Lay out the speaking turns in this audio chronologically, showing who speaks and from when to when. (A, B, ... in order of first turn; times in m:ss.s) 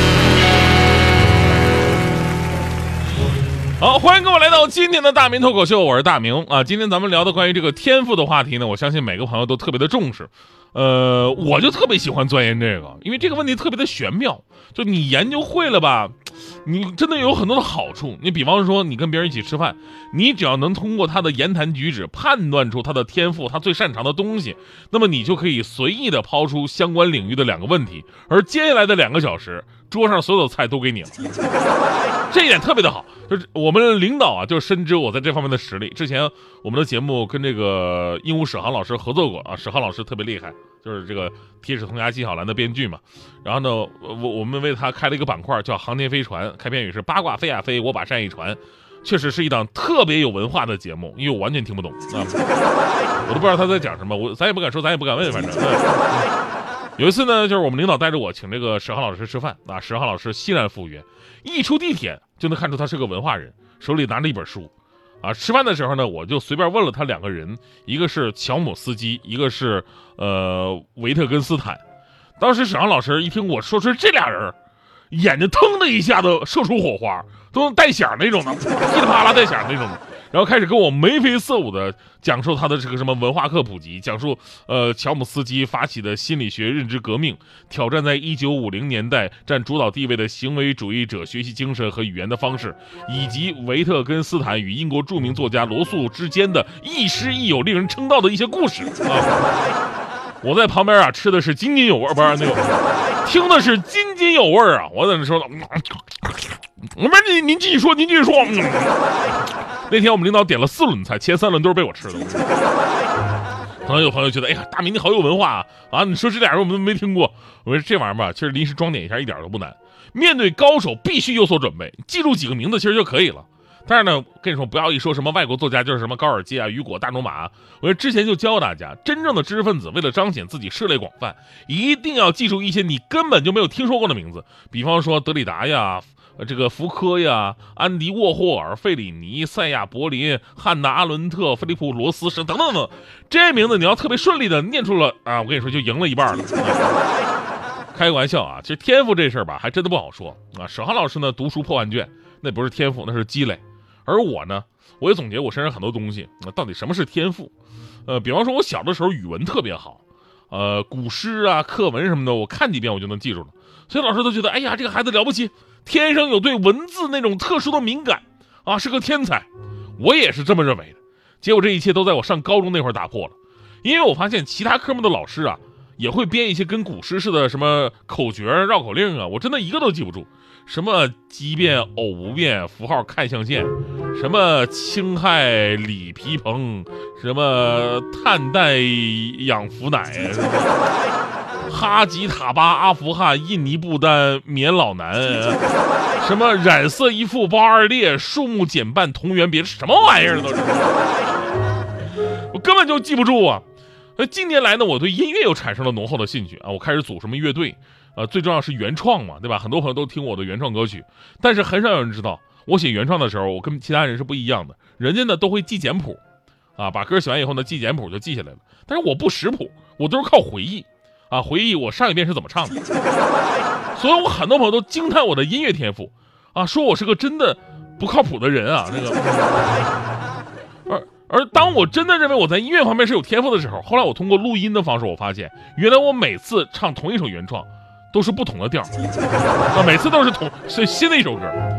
0:03.8-0:31.2 A
0:32.3-0:52.4 A
0:53.2-0:56.0 A
0:57.0-1:11.8 A
1:12.4-1:14.6 A
1:15.1-1:39.4 A
1:40.4-1:42.6 A
1:43.2-1:49.0 A
1:49.9-1:52.6 A
1:53.8-2:26.9 A
2:27.9-2:37.5 A
2:38.1-3:10.8 A
3:11.7-3:15.6 A
3:16.2-3:21.2 A
3:22.5-3:23.6 A
3:24.2-3:36.2 A
3:36.8-3:42.8 A
3:43.9-3:49.6 A
3:50.9-3:59.0 A
3:59.7-4:01.6 A